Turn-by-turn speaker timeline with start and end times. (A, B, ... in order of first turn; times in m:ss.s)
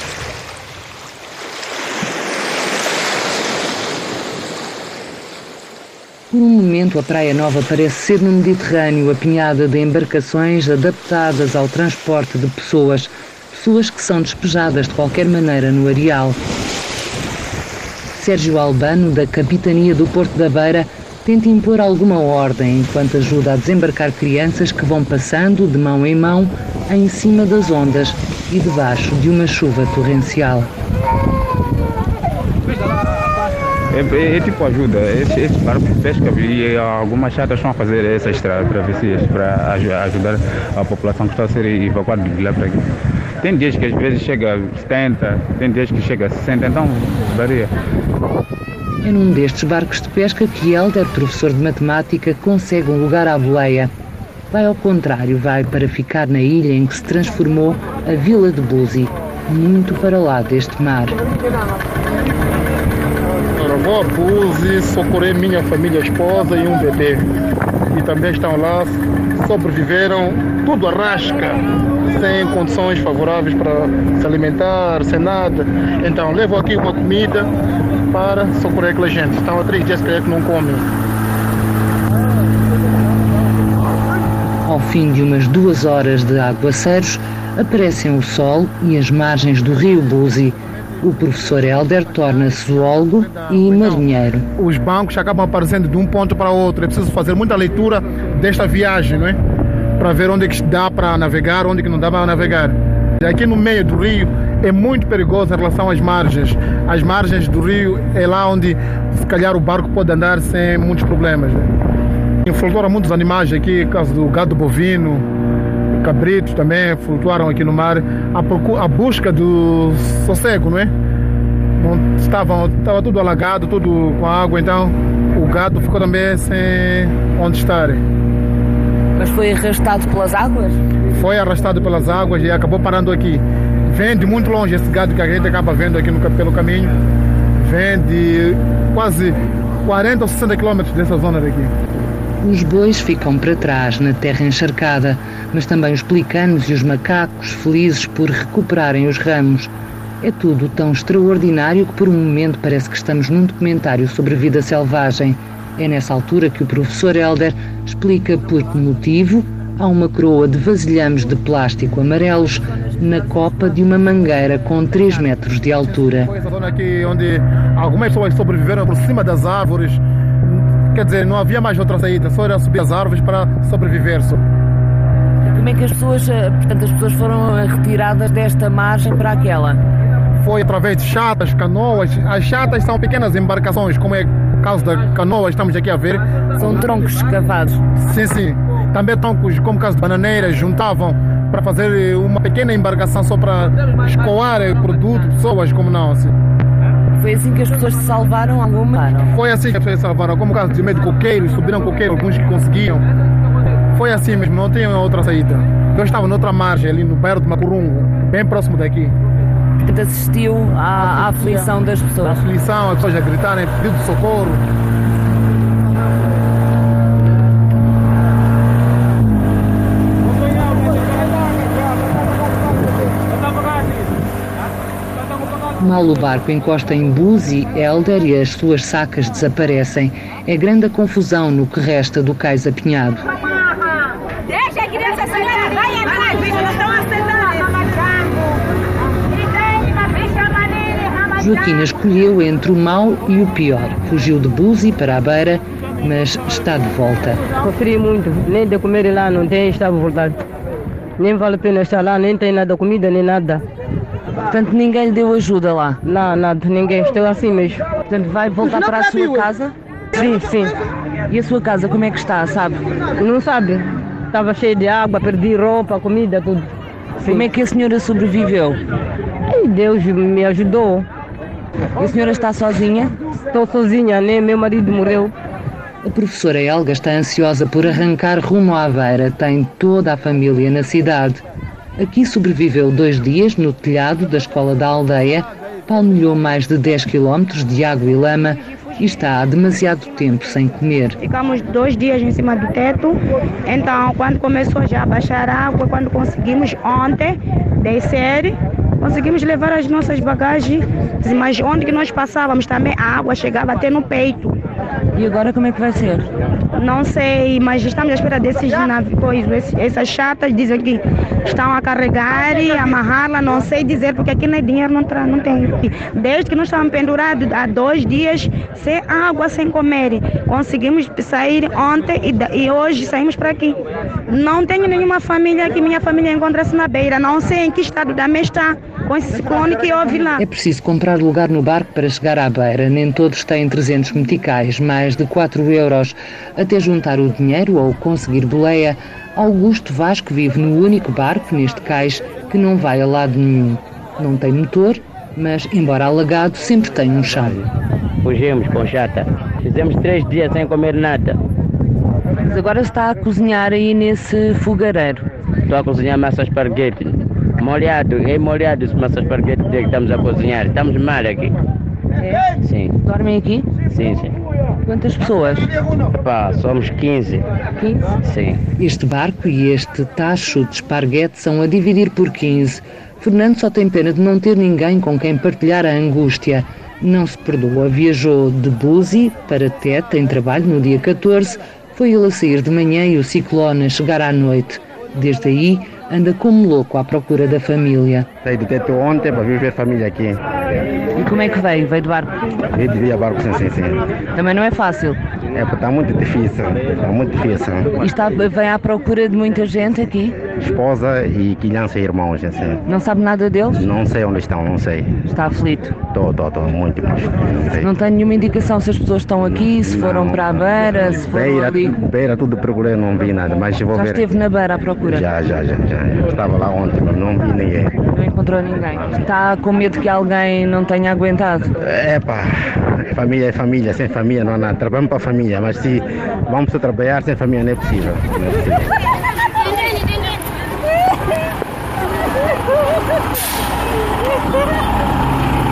0:06.3-0:16.4 A
0:18.1-0:30.7 A
0:33.9-0:42.8 B
0:43.4-0:47.7 B
0:49.0-0:53.9 A
0:54.5-1:01.2 A
1:03.5-1:07.3 C
1:07.9-1:17.5 C
1:18.1-1:20.8 C
1:24.6-1:34.4 A
1:32.3-1:34.0 C
1:34.6-1:39.4 C
1:40.0-1:51.7 C
1:52.4-1:55.2 C
1:56.0-2:00.9 C
2:01.8-2:08.0 C
2:09.2-2:10.8 D
2:11.1-2:16.9 C
2:17.6-2:21.7 C
2:22.4-2:46.3 A
2:46.3-2:54.4 C
2:55.5-2:59.8 D
3:00.4-3:06.4 C
3:06.5-3:07.8 D
3:08.0-3:16.3 C
3:17.2-3:19.3 D
3:19.3-3:23.0 C
3:23.9-3:29.1 C
3:29.8-3:32.4 D
3:31.0-3:34.6 C
3:45.8-3:53.2 A
3:54.7-3:58.0 E
4:01.4-4:07.4 A
4:07.6-4:10.4 F
4:11.2-4:13.6 F
4:14.5-4:16.0 D
4:16.0-4:17.8 F
4:18.1-4:19.7 D
4:20.1-4:20.8 F
4:21.3-4:22.8 D
4:23.2-4:26.7 F
4:27.3-4:28.8 D
4:29.5-4:31.0 F
4:32.0-4:33.1 D
4:33.5-4:35.3 F
4:36.0-4:41.4 A
4:42.0-4:51.2 A
4:51.2-5:04.6 G
5:05.1-5:06.3 D
5:06.7-5:30.4 G
5:30.4-5:47.6 A
5:48.2-5:51.4 H
5:52.5-5:55.2 D
5:55.7-6:01.6 H
6:02.6-6:03.0 H
6:03.0-6:03.7 D
6:03.9-6:04.4 H
6:04.8-6:05.7 D
6:06.2-6:07.4 H
6:08.2-6:08.6 H
6:08.8-6:28.3 A
6:28.4-6:30.5 I
6:31.1-6:32.4 D
6:32.7-6:34.0 I
6:34.3-6:35.2 D
6:35.5-6:37.9 I
6:38.0-6:40.4 D
6:40.5-6:42.8 I
6:42.8-6:43.9 D
6:43.8-6:45.2 I
6:45.3-6:46.0 D
6:46.1-6:47.9 I
6:47.8-6:52.0 D
6:49.4-6:54.4 I
6:53.9-6:55.3 D
6:55.0-6:58.0 I
6:58.1-7:01.7 D
7:01.8-7:08.9 I